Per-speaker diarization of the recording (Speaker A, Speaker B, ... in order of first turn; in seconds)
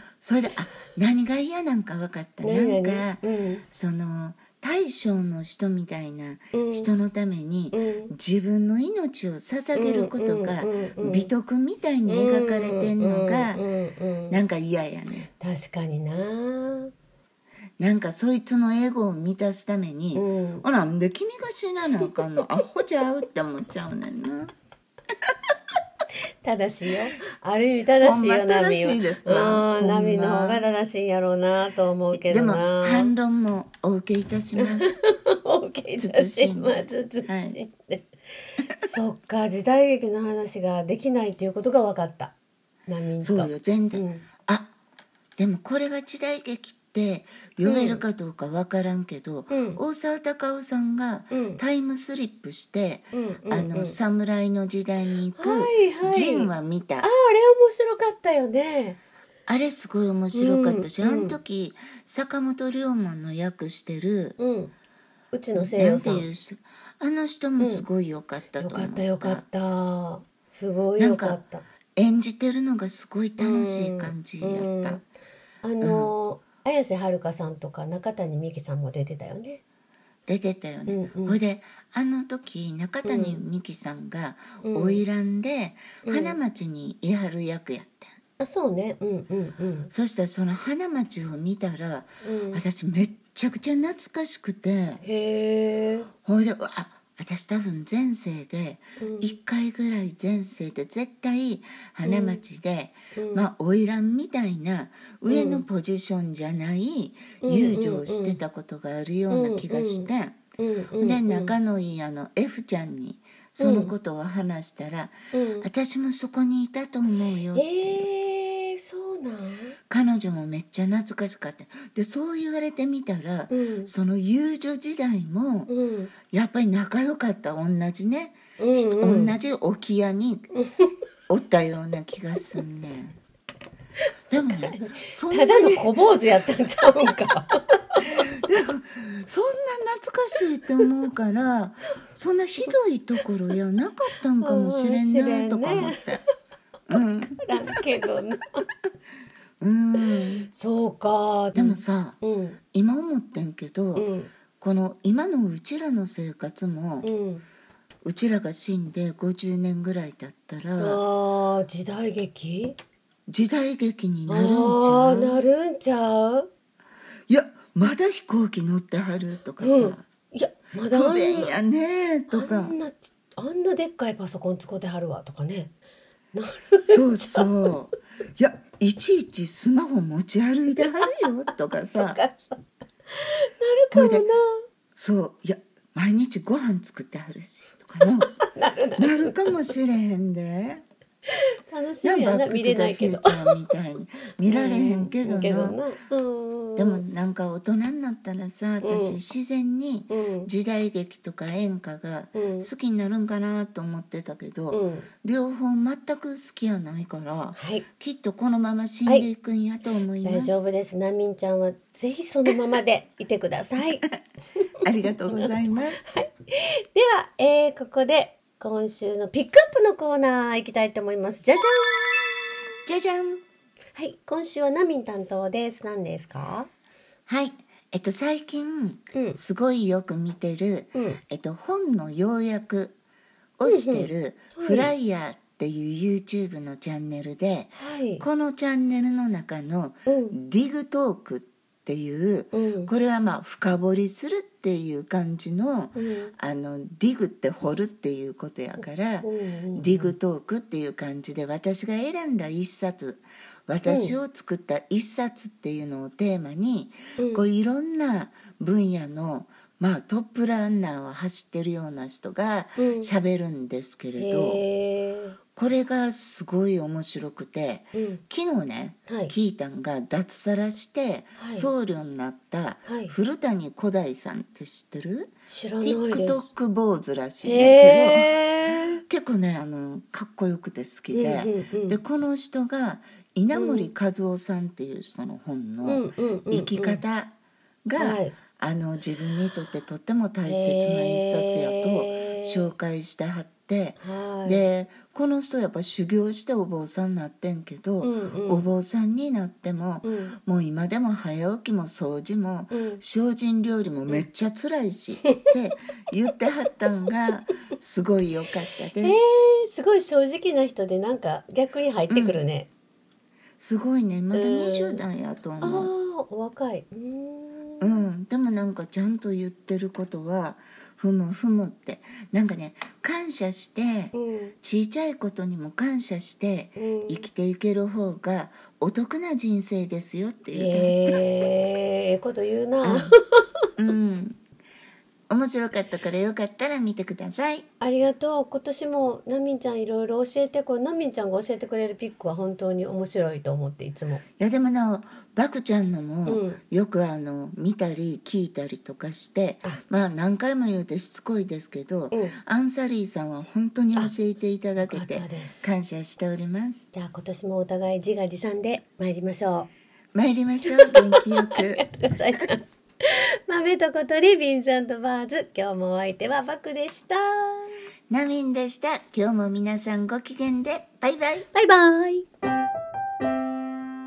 Speaker A: 0.2-13.6, 14.3-15.3, 17.8-24.5, 28.0-30.6, 32.1-35.0, 36.0-37.6, 43.2-44.7, 45.4-57.1, 59.5-64.4, 65.5-69.4, 71.0-71.4, 72.0-75.0, 75.8-76.1, 80.3-88.1, 89.9-95.0, 96.2-110.4, 111.0-118.1, 119.9-125.7, 126.3-130.5, 131.3-133.2, 134.3-136.2, 138.0-146.2, 146.9-147.8, 149.6-150.5, 151.5-152.2, 152.7-157.1, 158.0-161.0, 163.3-165.4, 167.3-170.0, 170.9-172.8, 176.9-182.2, 183.9-184.2, 184.9-188.4, 188.9-190.8, 192.0-195.8, 196.8-210.6, 214.8-216.1, 222.8-223.4, 227.3-232.9, 233.6-264.6, 265.6-278.3, 279.1-287.3, 287.9-309.2, 312.1-312.4, 313.6-315.9, 317.8-331.2, 332.8-333.1, 333.8-334.4, 335.3-337.6, 344.4-356.9, 360.1-361.8, 368.1-371.5
Speaker B: 2.4-3.6, 6.5-6.9, 7.7-8.1, 9.7-11.3, 12.1-14.4, 15.3-16.9, 20.1-20.6, 26.4-33.1, 34.6-42.3, 42.9-44.2, 47.6-48.0, 49.5-49.8, 51.3-51.6, 53.1-54.0, 55.4-59.0, 60.3-61.4, 64.4-64.7, 65.3-66.3, 67.6-67.8, 68.6-71.6, 73.4-75.0, 75.6-79.6, 80.9-81.4, 83.0-83.4, 84.6-85.0, 86.0-86.4, 88.4-89.9, 92.2-92.6, 95.0-96.1, 99.0-99.3, 102.0-102.4, 103.1-103.5, 105.3-105.7, 107.4-108.4, 109.3-111.5, 113.6-113.9, 115.3-115.7, 117.5-119.8, 123.5-123.9, 125.7-126.1, 128.6-129.3, 130.5-131.0, 134.4-138.2, 144.4-146.2, 147.4-148.6, 150.5-152.6, 153.9-154.3, 157.0-157.4, 160.8-162.8, 164.3-166.5, 169.6-171.5, 172.3-175.7, 176.3-177.7, 180.8-181.2, 181.7-182.6, 183.1-184.6, 188.2-189.5, 191.3-193.6, 194.4-197.0, 198.8-199.2, 200.1-200.5, 202.3-202.7, 204.7-205.1, 207.6-207.9, 210.2-214.1, 215.2-222.7, 223.9-226.7, 229.1-229.4, 230.9-231.2, 233.7-234.9, 237.8-238.2, 240.1-240.4, 242.5-242.9, 245.9-246.3, 249.2-250.1, 253.8-254.2, 257.2-257.5, 262.8-263.1, 264.2-265.4, 267.9-268.2, 269.1-269.3, 271.4-271.7, 272.9-273.1, 275.5-276.5, 277.4-279.0, 281.1-282.0, 283.5-283.9, 285.8-287.0, 288.0-288.3, 290.4-292.7, 294.0-294.6, 298.0-298.7, 300.0-300.3, 302.7-303.0, 309.0-312.7, 314.3-315.0, 315.6-318.0, 324.1-324.5, 326.8-327.2, 330.5-333.5, 337.8-344.2, 346.2-346.6, 352.1-352.4, 354.8-355.6, 356.9-359.7, 360.6-367.8, 371.5-372.2